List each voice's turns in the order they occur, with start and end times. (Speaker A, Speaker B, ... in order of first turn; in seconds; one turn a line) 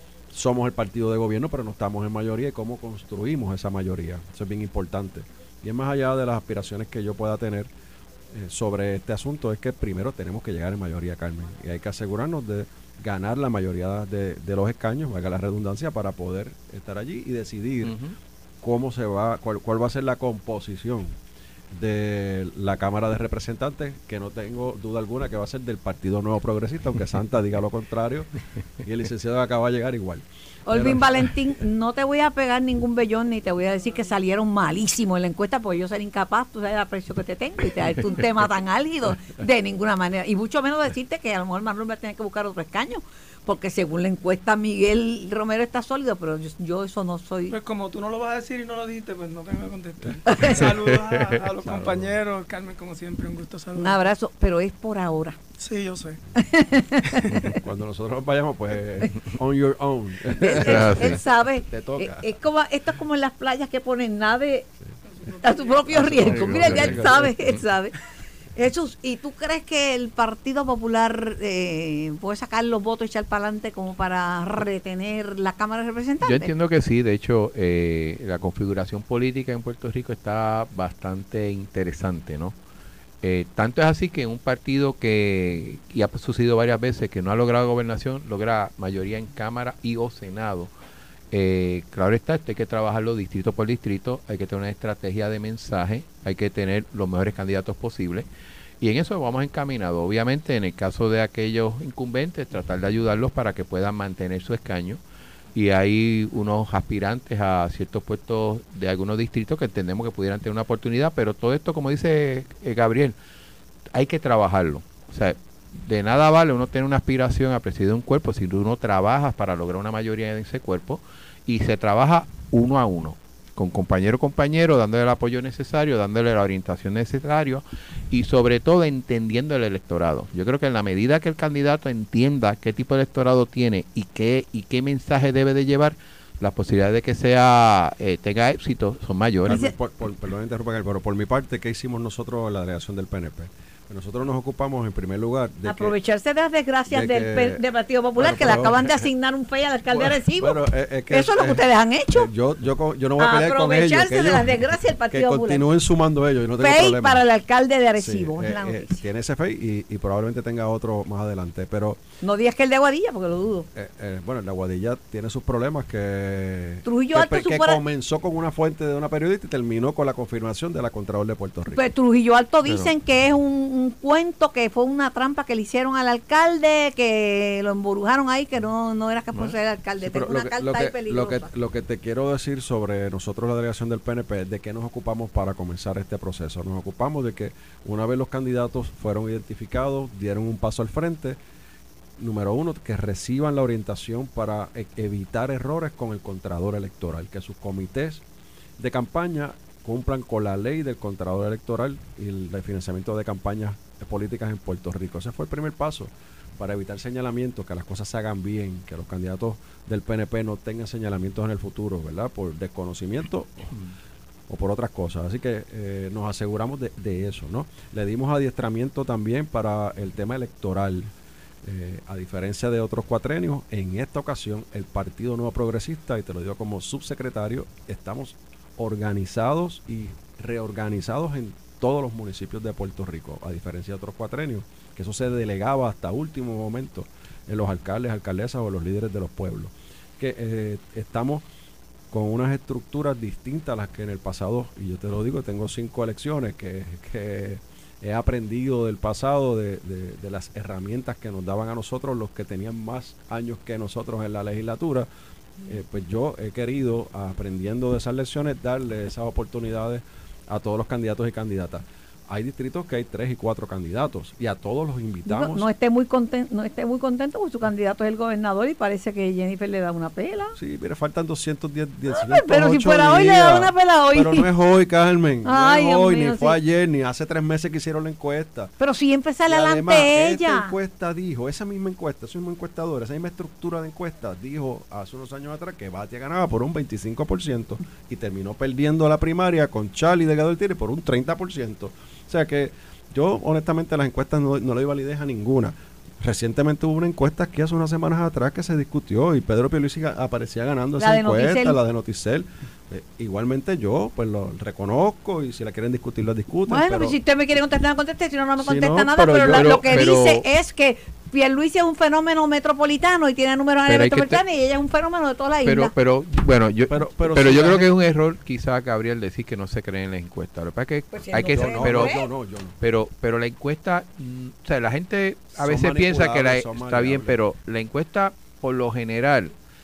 Speaker A: 0.3-7.7
Speaker A: 8.3-18.0
Speaker B: 17.8-18.1
Speaker A: 18.6-21.2
Speaker A: 21.7-28.3
Speaker A: 28.8-31.3
Speaker C: 30.7-47.6
Speaker D: 47.5-54.1
Speaker C: 50.3-50.6
Speaker A: 51.6-52.1
Speaker C: 53.8-55.4
Speaker D: 55.6-56.2
Speaker C: 56.4-57.6
Speaker A: 57.3-62.2
Speaker C: 60.3-64.7
Speaker B: 60.6-61.2
Speaker C: 65.4-68.0
Speaker D: 65.5-65.8
Speaker A: 66.0-67.3
Speaker B: 66.0-67.1
Speaker C: 68.5-76.5
Speaker B: 76.2-82.5
Speaker B: 83.2-90.7
Speaker B: 91.3-98.3
Speaker B: 98.8-105.0
Speaker B: 105.5-113.2
Speaker B: 113.9-139.6
Speaker A: 139.4-145.9
Speaker C: 139.5-139.7
Speaker C: 145.7-152.3
Speaker A: 146.9-147.6
Speaker A: 148.2-148.9
Speaker A: 149.9-157.2
Speaker C: 153.2-155.6
Speaker C: 156.6-159.0
Speaker A: 158.0-162.0
Speaker C: 162.2-163.7
Speaker A: 163.7-171.8
Speaker C: 166.8-167.8
Speaker C: 171.7-181.5
Speaker A: 172.7-172.9
Speaker A: 180.0-191.4
Speaker A: 192.2-198.2
Speaker A: 198.8-213.6
Speaker A: 214.5-221.1
Speaker A: 221.6-241.4
Speaker A: 242.1-255.1
Speaker A: 255.7-265.7
Speaker C: 265.3-270.6
Speaker A: 270.6-278.7
Speaker C: 272.1-274.5
Speaker C: 275.4-276.6
Speaker C: 278.8-280.8
Speaker A: 279.5-307.2
Speaker C: 301.0-301.8
Speaker C: 306.7-315.9
Speaker A: 308.6-310.1
Speaker B: 309.5-310.4
Speaker B: 313.9-314.4
Speaker B: 315.6-322.1
Speaker A: 316.9-317.9
Speaker C: 321.1-322.3
Speaker A: 321.5-322.8
Speaker B: 322.8-329.5
Speaker A: 325.6-327.4